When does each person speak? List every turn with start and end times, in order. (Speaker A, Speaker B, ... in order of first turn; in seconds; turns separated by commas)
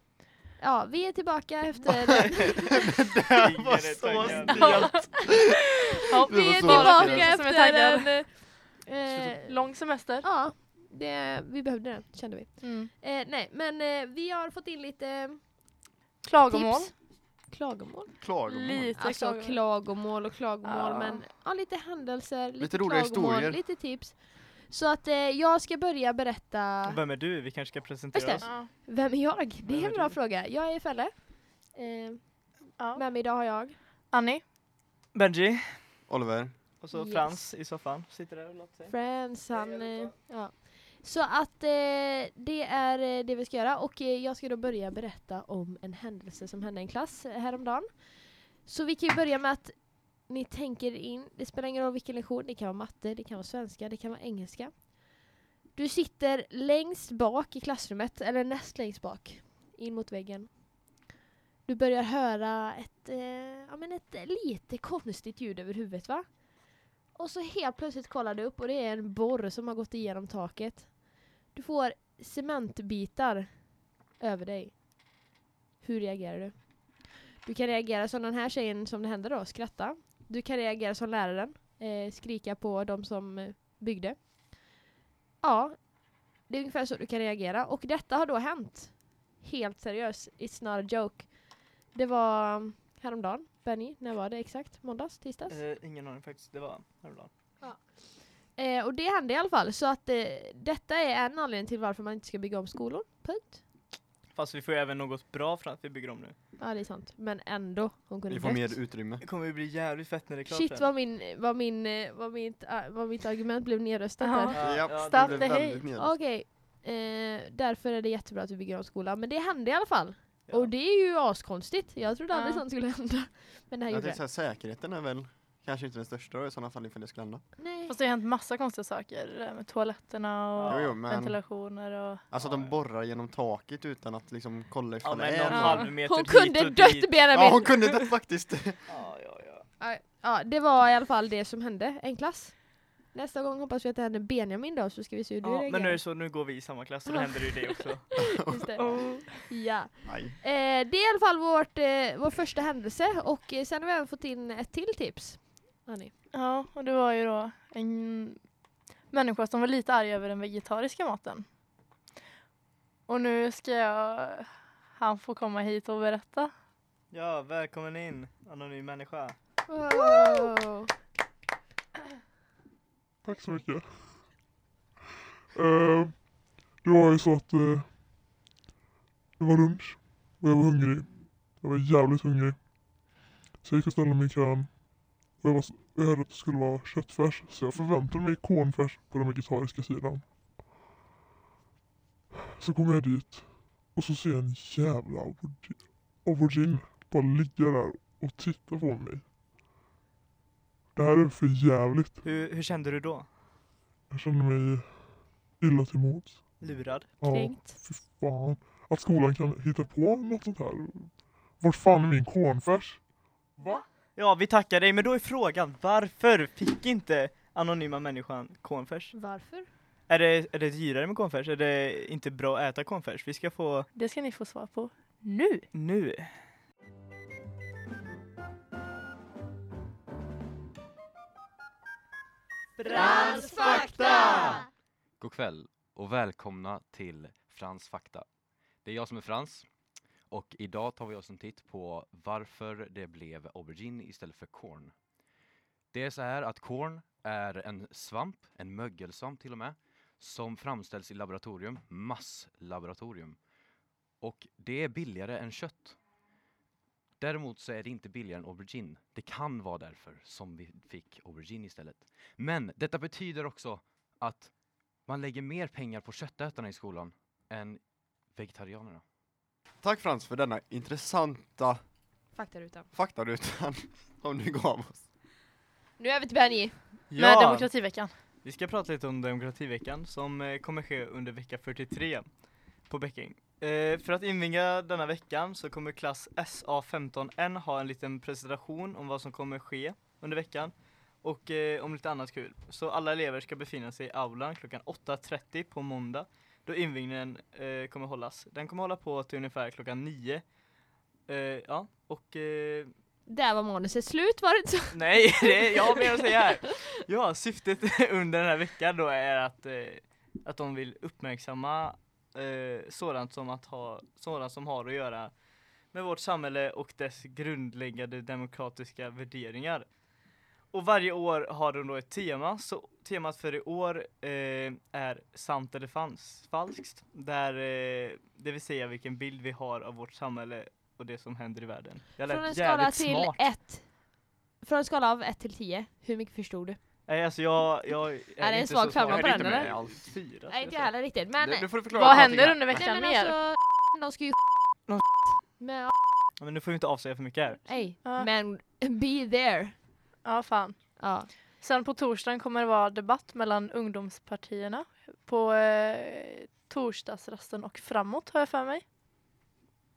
Speaker A: 0.6-2.9, Speaker B: 2.3-7.3, Speaker C: 3.4-5.0, Speaker D: 4.4-5.1, Speaker D: 6.1-10.2, Speaker A: 6.4-15.9, Speaker D: 12.6-12.9, Speaker D: 16.2-16.9, Speaker A: 16.5-18.3, Speaker B: 18.2-18.9, Speaker D: 18.4-19.6, Speaker A: 18.9-27.0, Speaker D: 20.6-21.2, Speaker B: 22.6-23.6, Speaker C: 26.9-28.4, Speaker A: 28.1-33.8, Speaker D: 28.4-28.7, Speaker C: 29.6-30.1, Speaker D: 34.1-34.4, Speaker C: 35.1-35.9, Speaker B: 36.1-36.6, Speaker C: 36.8-38.9, Speaker A: 36.9-37.5, Speaker A: 38.9-61.0, Speaker A: 61.6-75.3, Speaker A: 75.8-84.8, Speaker A: 85.4-95.6, Speaker C: 95.5-97.3, Speaker A: 97.6-103.6, Speaker C: 104.3-106.3, Speaker A: 106.6-108.8, Speaker B: 108.3-109.2, Speaker C: 109.2-110.9, Speaker A: 110.5-114.6, Speaker D: 114.2-115.8, Speaker C: 114.5-115.5, Speaker B: 114.6-116.2, Speaker A: 116.0-124.2, Speaker D: 122.3-122.6, Speaker B: 123.9-127.4, Speaker A: 127.6-128.0, Speaker D: 127.9-132.2, Speaker C: 130.6-130.9, Speaker B: 130.7-131.5, Speaker B: 132.3-135.9, Speaker C: 132.4-132.7, Speaker C: 135.0-137.2, Speaker D: 135.5-135.9, Speaker A: 135.8-138.1, Speaker B: 137.3-139.0, Speaker C: 138.9-139.7, Speaker A: 139.8-146.0, Speaker C: 145.4-148.3, Speaker A: 147.1-147.5, Speaker A: 148.2-148.8, Speaker B: 148.4-149.0, Speaker D: 148.8-149.3, Speaker A: 149.4-156.1, Speaker B: 150.0-150.4, Speaker D: 156.3-161.5, Speaker D: 163.1-166.5, Speaker C: 167.1-169.3, Speaker A: 169.7-170.9, Speaker D: 170.1-170.4, Speaker E: 173.2-174.5, Speaker E: 175.5-177.9, Speaker E: 179.4-190.8, Speaker E: 192.3-199.3, Speaker E: 200.9-202.3, Speaker C: 202.2-203.3, Speaker E: 204.1-213.8, Speaker C: 206.6-207.2, Speaker A: 207.3-207.8, Speaker C: 214.1-219.3, Speaker A: 219.1-219.7, Speaker C: 220.1-223.9, Speaker D: 223.9-225.7, Speaker C: 225.7-226.3, Speaker A: 232.9-234.3, Speaker F: 234.3-234.5, Speaker F: 235.2-238.2, Speaker F: 238.8-239.7, Speaker F: 240.3-244.9, Speaker F: 245.9-253.4, Speaker F: 254.2-256.0, Speaker F: 257.2-269.0, Speaker B: 269.8-271.8, Speaker A: 272.3-272.9, Speaker B: 272.9-275.1, Speaker A: 276.0-276.9, Speaker C: 277.1-277.7, Speaker D: 277.1-278.1, Speaker C: 278.4-300.5, Speaker C: 301.2-302.9, Speaker A: 303.3-306.7, Speaker C: 304.9-315.4, Speaker C: 315.9-320.0, Speaker C: 320.7-333.4, Speaker A: 332.2-336.8, Speaker C: 337.1-340.9, Speaker A: 338.4-339.9, Speaker B: 339.1-340.1, Speaker A: 340.4-346.3, Speaker B: 341.4-342.9, Speaker D: 341.9-343.3, Speaker C: 344.9-345.3, Speaker C: 346.4-347.6, Speaker A: 347.6-349.8, Speaker D: 350.2-358.8, Speaker A: 351.0-351.3